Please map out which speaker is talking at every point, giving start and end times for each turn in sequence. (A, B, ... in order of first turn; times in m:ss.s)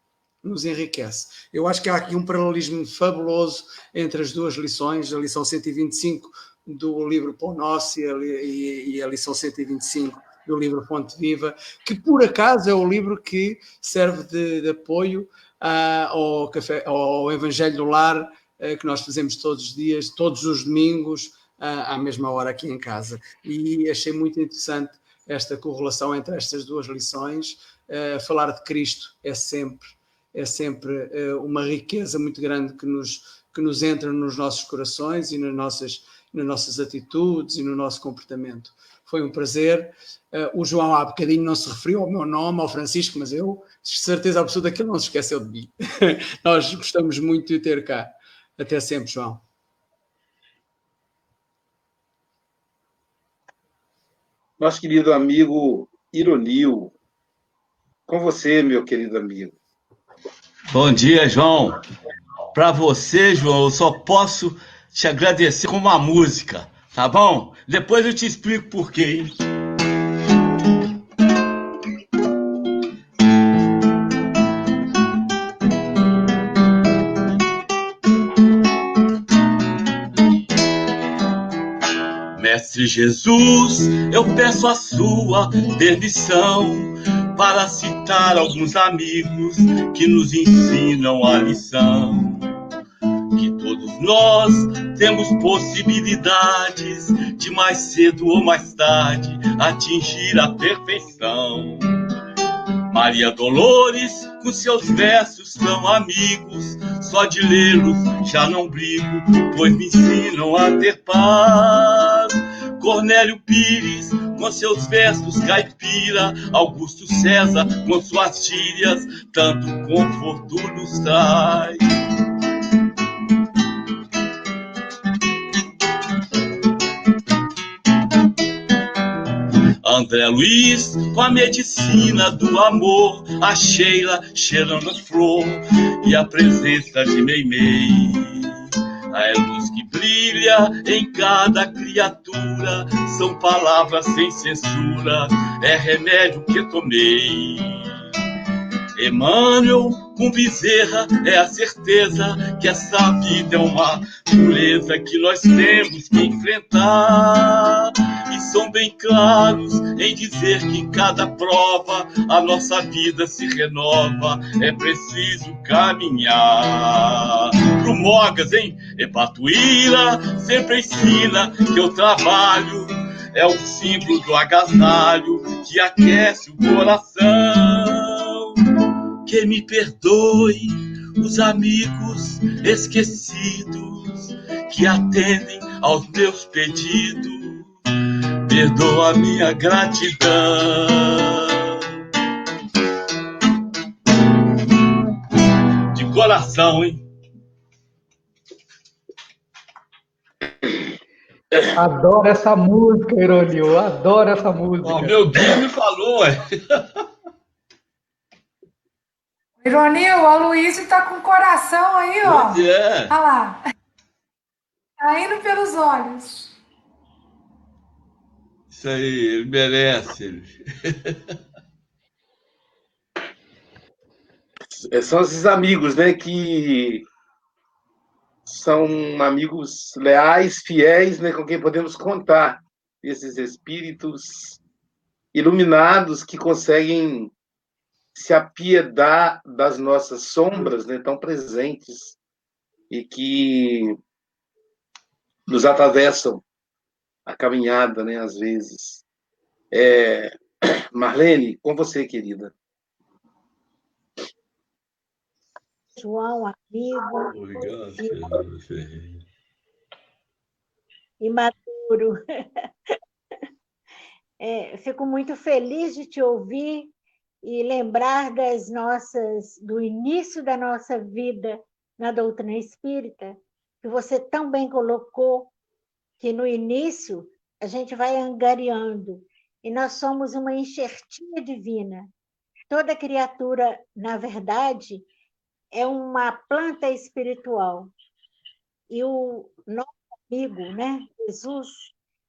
0:00.4-0:49.4 A
0:54.6-0:56.9 B
0:58.1-0:59.6 B
1:00.7-1:01.8 C
1:02.5-1:09.3 C
1:22.4-1:32.4 C
1:33.3-1:41.8 C
1:42.9-2:01.8 C
2:09.8-2:18.6 C
2:19.1-2:27.9 C
2:29.0-2:58.5 C
2:59.3-3:07.7 C
3:08.5-3:11.8 C
3:15.9-3:17.0 C
3:21.6-3:25.2 D
3:24.8-3:26.8 C
3:29.6-3:33.6 E
3:32.2-3:33.1 C
3:35.0-3:36.5 E
3:38.7-3:41.2 C
3:44.7-3:47.0 B
3:48.4-3:54.6 B
3:55.3-3:57.3 B
3:58.1-4:02.2 B
4:02.9-4:04.0 B
4:05.5-4:06.4 B
4:07.3-4:09.0 B
4:09.7-4:10.3 B
4:10.9-4:12.5 B
4:16.0-4:18.4 F
4:17.3-4:19.2 C
4:21.2-4:22.2 F
4:24.4-4:35.5 F
4:36.2-4:42.1 F
4:42.7-4:45.1 F
4:45.7-4:47.9 F
4:48.9-4:51.9 F